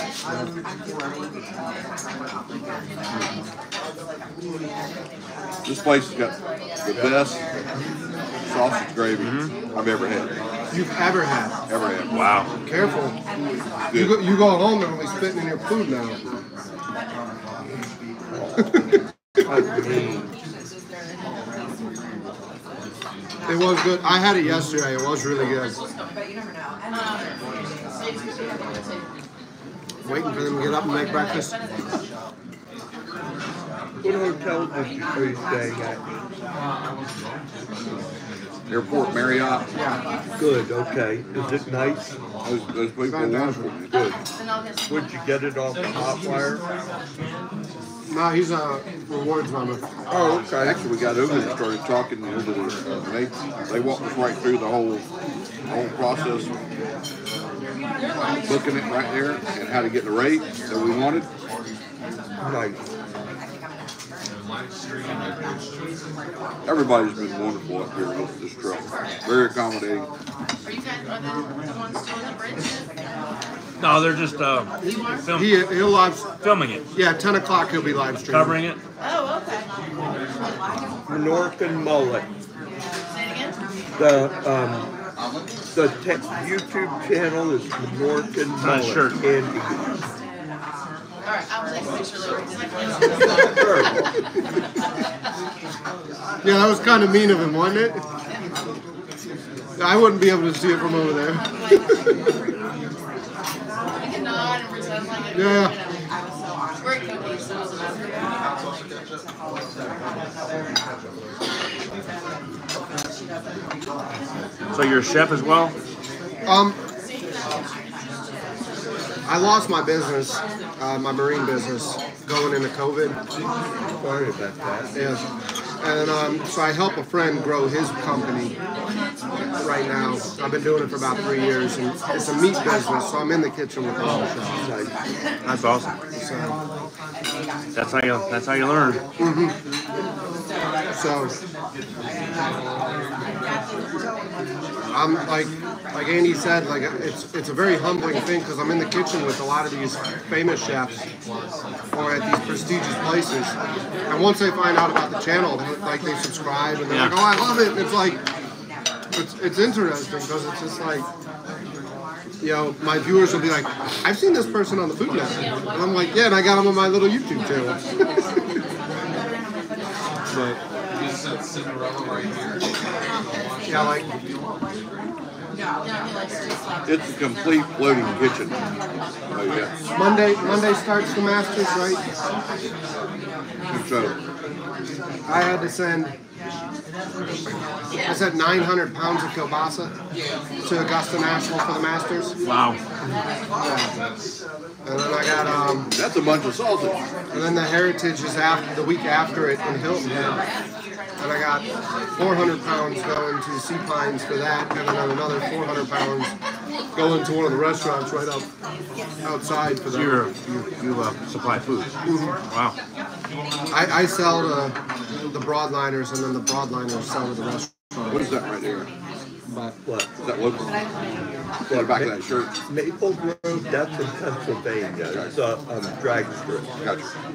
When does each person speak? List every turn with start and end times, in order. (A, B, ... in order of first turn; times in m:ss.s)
0:05.6-0:07.4 A
0:06.9-0:07.3 B
0:08.5-0:10.3 A
0:09.2-0:09.5 C
0:10.7-0:11.6 D
0:11.7-0:12.1 A
0:12.1-0:12.5 C
0:12.6-0:13.2 D
0:13.9-0:14.2 A
0:13.9-0:16.2 D
0:18.6-0:19.0 D
0:19.4-0:20.2 B
0:23.5-0:25.8 D
0:26.9-0:27.4 E
0:28.1-0:28.9 E
0:30.0-0:31.6 D
0:34.0-0:36.0 B
0:38.7-0:39.7 A
0:39.8-0:40.0 D
0:40.4-0:42.1 B
0:42.4-0:44.0 A
0:43.1-0:43.7 D
0:43.9-0:44.2 B
0:44.9-0:46.6 B
0:48.1-0:49.9 D
0:50.1-0:51.6 B
0:50.6-0:55.1 A
0:55.7-0:56.5 A
0:58.4-1:01.3 A
1:02.4-1:02.8 B
1:06.6-1:10.1 A
1:10.6-1:12.9 E
1:13.8-1:15.7 C
1:14.8-1:16.3 D
1:16.4-1:16.8 C
1:16.9-1:18.6 D
1:18.3-1:18.8 C
1:19.0-1:19.7 E
1:21.1-1:22.3 B
1:23.3-1:23.5 E
1:24.0-1:24.9 B
1:25.7-1:30.0 B
1:28.6-1:29.2 C
1:31.2-1:34.3 E
1:33.3-1:34.1 B
1:36.4-1:38.0 D
1:39.8-1:42.1 D
1:41.7-1:42.1 E
1:44.0-1:45.9 E
1:45.3-1:45.8 D
1:46.8-1:48.5 E
1:54.7-1:55.8 C
1:56.5-1:56.8 D
1:59.3-2:03.2 D
2:04.0-2:04.9 B
2:05.0-2:05.2 D
2:05.8-2:08.6 D
2:09.6-2:14.5 D
2:14.5-2:14.9 B
2:15.4-2:16.6 D
2:15.5-2:15.9 C
2:17.7-2:19.0 C
2:19.2-2:19.6 D
2:20.9-2:21.4 D
2:24.9-2:31.0 D
2:31.9-2:33.6 D
2:34.1-2:38.2 D
2:36.9-2:37.2 C
2:39.1-2:41.1 D
2:42.4-2:48.2 D
2:50.3-2:50.6 D
2:53.7-2:54.1 D
2:56.9-2:58.6 A
2:59.3-2:59.7 A
2:59.9-3:02.0 D
3:03.7-3:04.2 A
3:05.3-3:06.2 D
3:08.1-3:09.9 D
3:10.6-3:12.4 D
3:12.4-3:12.8 C
3:13.6-3:13.9 D
3:14.8-3:15.9 D
3:15.9-3:17.0 A
3:17.3-3:20.4 D
3:21.2-3:26.3 D
3:27.0-3:28.5 D
3:29.2-3:30.3 D
3:29.9-3:31.9 C
3:32.1-3:32.4 D
3:32.5-3:32.8 C
3:33.7-3:34.8 D
3:35.3-3:38.3 D
3:38.1-3:38.9 A
3:39.5-3:39.8 D
3:39.8-3:40.1 B
3:40.2-3:40.7 A
3:41.7-3:42.2 B
3:41.7-3:42.5 A
3:42.7-3:46.7 B
3:46.8-3:47.1 A